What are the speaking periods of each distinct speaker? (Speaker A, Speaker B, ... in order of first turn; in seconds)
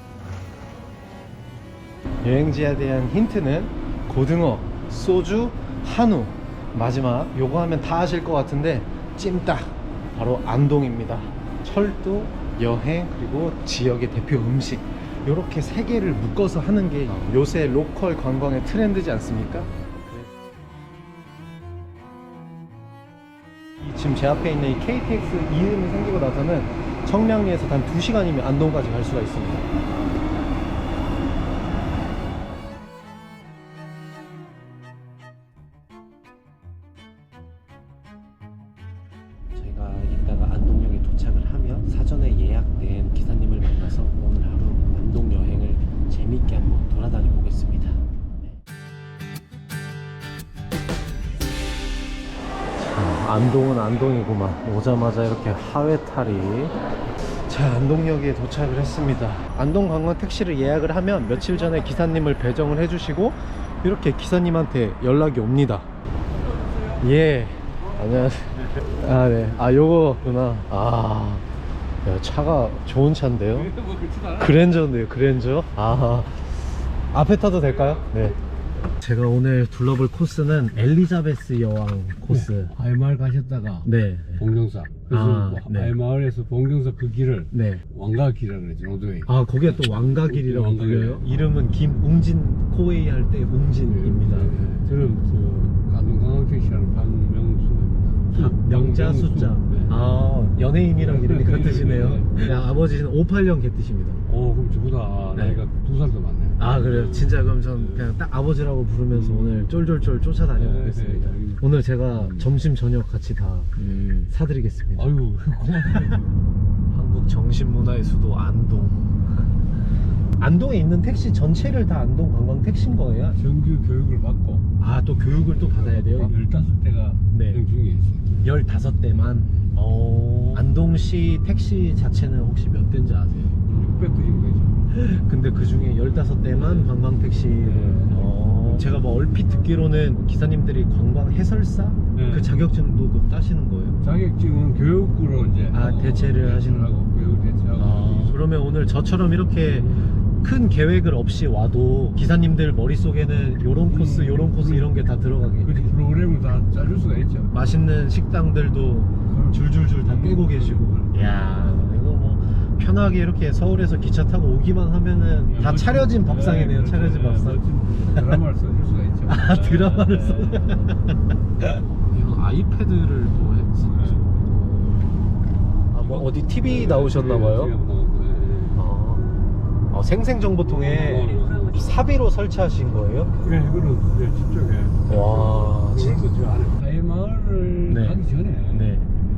Speaker A: 2.2-20.2, 23.8-29.7, 39.5-48.0, 52.8-56.8, 57.5-65.9, 67.0-71.5, 72.0-73.7, 74.4-78.4, 79.0-82.7, 83.8-84.4, 85.1-85.9, 87.5-87.8, 89.3-94.6, 98.3-104.2, 105.4-105.6, 106.6-113.7, 114.3-116.2, 116.9-119.7, 120.4-123.4, 124.8-126.3, 127.3-127.6, 128.4-133.6, 134.9-144.0, 145.7-147.0, 147.8-155.9, 157.5-167.6, 168.1-168.4, 169.3-171.2, 172.1-175.1, 175.9-177.7, 178.8-179.3, 179.9-183.3, 185.1-186.2, 187.9-189.1
Speaker B: 73.5-74.8, 82.3-91.3, 93.9-100.0, 101.0-102.7, 104.3-108.2, 109.1-109.8, 110.5-112.5, 113.8-114.3, 115.0-116.3, 123.4-124.7, 125.4-128.3, 129.2-129.7, 133.6-134.8, 136.4-136.9, 137.6-139.0, 142.2-142.5, 144.0-148.4, 149.6-150.2, 153.7-155.1, 155.6-157.6, 159.3-162.0, 165.5-170.8, 173.9-174.3, 175.9-178.9, 180.7-181.7, 183.4-189.0